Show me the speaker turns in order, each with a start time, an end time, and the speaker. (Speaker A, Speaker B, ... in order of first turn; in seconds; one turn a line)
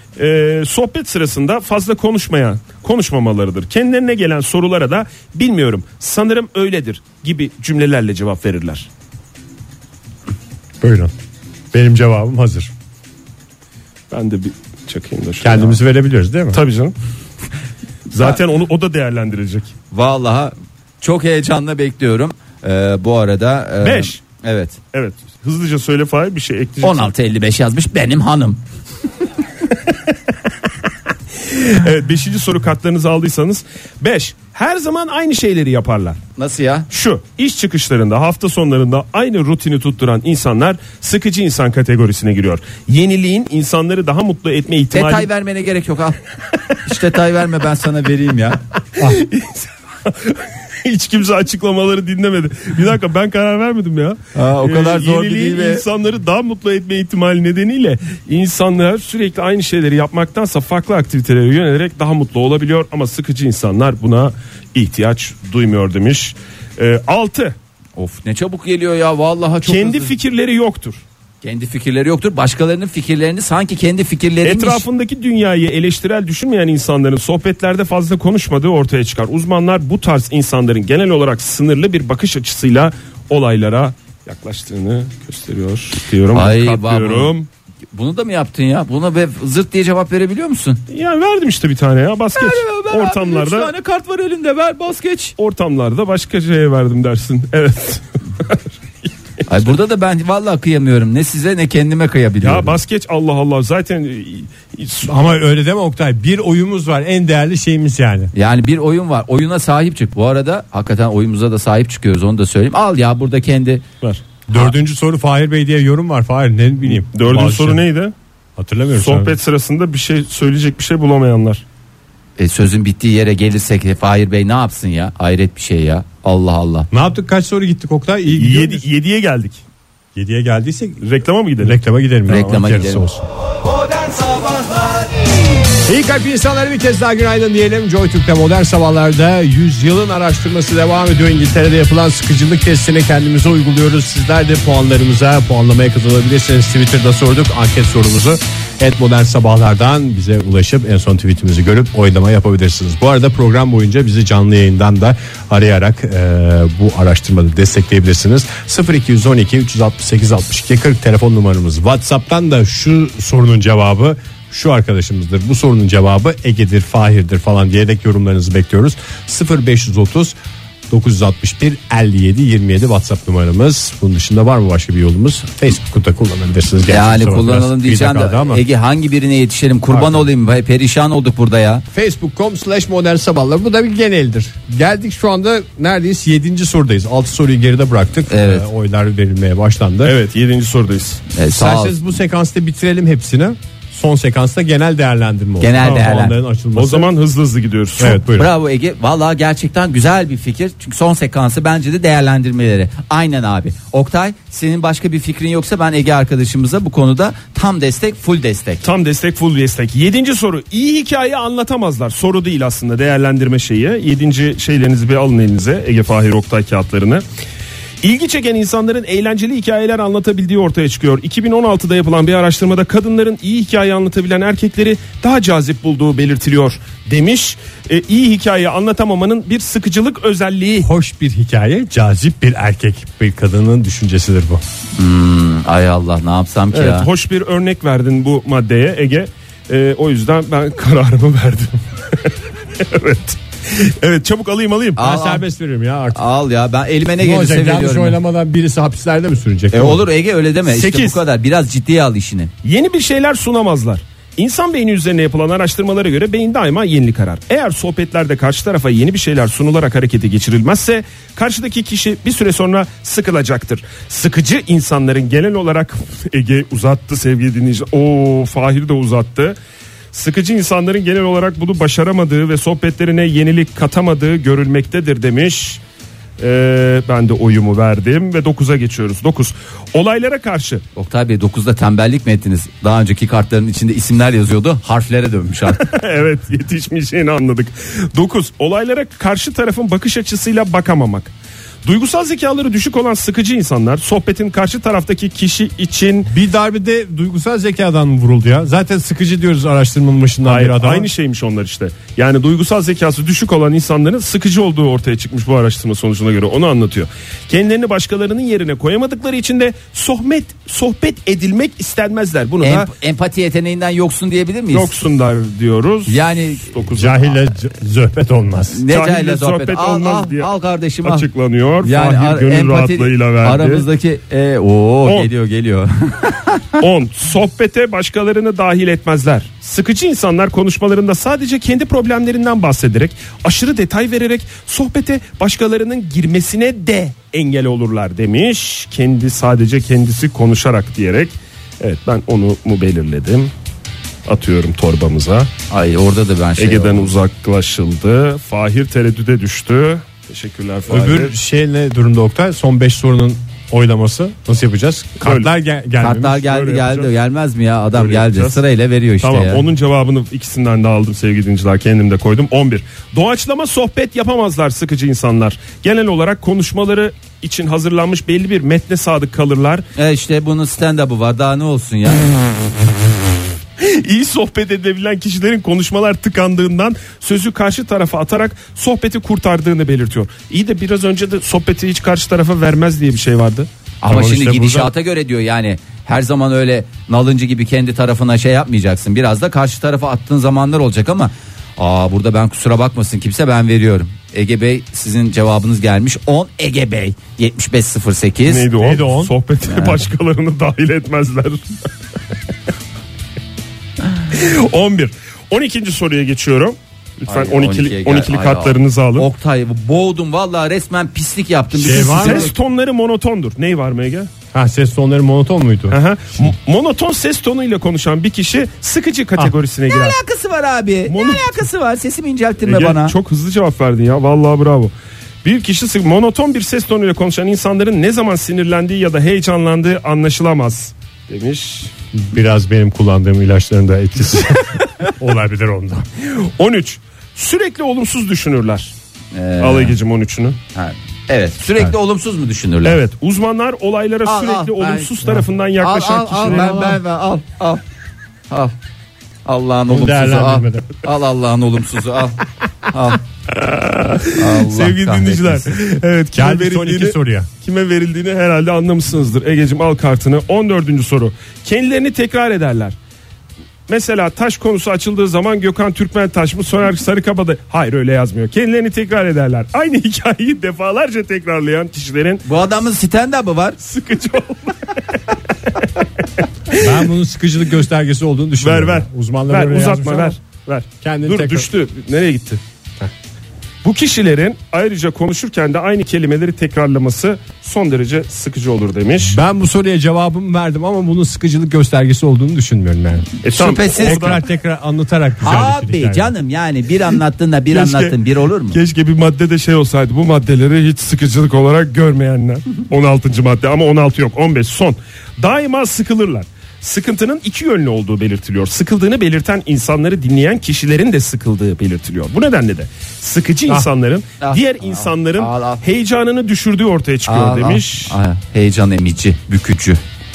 Speaker A: 0.2-8.9
Speaker B: 10.8-11.1
Speaker B: 11.7-12.7
Speaker A: 14.1-15.8
Speaker B: 15.4-16.6
Speaker A: 16.5-16.9
Speaker A: 18.1-19.7
Speaker C: 19.9-24.8
Speaker A: 23.8-24.2
Speaker A: 24.9-27.1
Speaker C: 26.8-28.6
Speaker A: 31.4-36.2
Speaker C: 36.4-36.9
Speaker A: 36.9-45.3
Speaker C: 44.9-46.2
Speaker C: 46.8-48.6
Speaker A: 49.0-67.5
Speaker C: 54.3-55.8
Speaker C: 68.0-70.1
Speaker A: 69.6-71.0
Speaker C: 71.4-74.8
Speaker A: 74.4-87.5
Speaker C: 86.3-87.3
Speaker C: 87.9-90.8
Speaker A: 90.9-93.7
Speaker C: 92.3-95.3
Speaker A: 95.4-98.6
Speaker C: 99.5-102.8
Speaker A: 102.4-105.1
Speaker B: 105.0-108.3
Speaker C: 108.3-113.8
Speaker B: 114.5-117.8
Speaker A: 116.9-118.1
Speaker B: 118.6-119.3
Speaker A: 118.9-121.6
Speaker C: 122.4-126.9
Speaker B: 126.9-128.8
Speaker A: 128.3-129.6
Speaker B: 130.1-131.0
Speaker A: 131.0-131.8
Speaker B: 131.6-133.2
Speaker C: 132.3-133.0
Speaker A: 132.3-132.5
Speaker C: 134.0-135.0
Speaker B: 135.8-170.3
Speaker B: 170.9-178.6
Speaker C: 176.9-181.8
Speaker B: 179.9-180.2
Speaker B: 181.9-190.1
Speaker C: 188.3-188.7
Speaker A: 190.0-191.2
Speaker C: 191.3-191.9
Speaker B: 191.5-197.1
Speaker C: 195.6-196.3
Speaker A: 195.8-196.1
Speaker A: 196.7-198.2
Speaker B: 198.0-198.5
Speaker C: 198.3-208.8
Speaker A: 208.8-217.2
Speaker A: 218.0-230.9
Speaker B: 230.8-234.6
Speaker C: 235.0-237.1
Speaker A: 236.7-245.0
Speaker C: 245.0-245.4
Speaker B: 245.0-246.2
Speaker C: 246.1-248.2
Speaker B: 247.2-250.1
Speaker C: 249.7-252.5
Speaker A: 250.7-251.2
Speaker A: 252.6-269.6
Speaker A: 270.1-275.8
Speaker A: 276.4-280.8
Speaker C: 280.9-285.9
Speaker A: 285.8-291.3
Speaker A: 291.8-296.3
Speaker B: 296.3-301.1
Speaker A: 300.4-312.9
Speaker C: 312.6-314.9
Speaker A: 314.7-317.4
Speaker C: 316.1-316.7
Speaker B: 316.9-318.8
Speaker C: 318.7-321.3
Speaker A: 318.9-320.5
Speaker A: 321.0-323.9
Speaker C: 321.8-326.8
Speaker A: 325.0-325.3
Speaker A: 326.8-343.5
Speaker A: 344.3-345.5
Speaker C: 345.7-347.1
Speaker A: 346.6-351.3
Speaker B: 350.9-356.4
Speaker A: 355.2-355.5
Speaker C: 356.0-359.6
Speaker A: 356.4-357.1
Speaker A: 357.9-358.6
Speaker A: 359.2-369.8
Speaker C: 369.9-372.3
Speaker A: 373.8-384.9
Speaker C: 384.0-398.7
Speaker A: 398.5-401.6
Speaker B: 398.8-399.3
Speaker C: 399.6-400.0
Speaker A: 404.3-409.3
Speaker C: 407.3-412.5
Speaker B: 411.7-412.5
Speaker A: 411.8-414.3
Speaker B: 414.5-416.5
Speaker A: 415.9-420.2
Speaker C: 419.9-423.1
Speaker A: 421.1-421.7
Speaker A: 422.6-424.9
Speaker A: 425.4-431.9
Speaker B: 432.1-436.1
Speaker A: 436.2-438.9
Speaker C: 439.3-439.9
Speaker A: 439.6-440.6
Speaker C: 440.7-443.0
Speaker A: 442.8-446.9
Speaker C: 444.2-445.1
Speaker C: 445.8-447.8
Speaker B: 446.4-447.0
Speaker C: 449.4-453.2
Speaker B: 449.9-451.0
Speaker A: 453.5-462.9
Speaker C: 454.4-455.7
Speaker B: 456.3-457.5
Speaker A: 463.9-472.4
Speaker C: 472.4-473.8
Speaker A: 473.8-475.2
Speaker A: 475.7-476.9
Speaker B: 476.7-480.4
Speaker A: 478.6-482.6
Speaker B: 481.0-481.7
Speaker A: 483.8-489.4
Speaker B: 489.2-493.3
Speaker A: 493.4-494.4
Speaker C: 493.5-494.4
Speaker B: 494.0-496.3
Speaker C: 495.4-498.8
Speaker A: 497.7-498.2
Speaker A: 498.7-518.1
Speaker C: 514.4-515.8
Speaker C: 517.2-520.0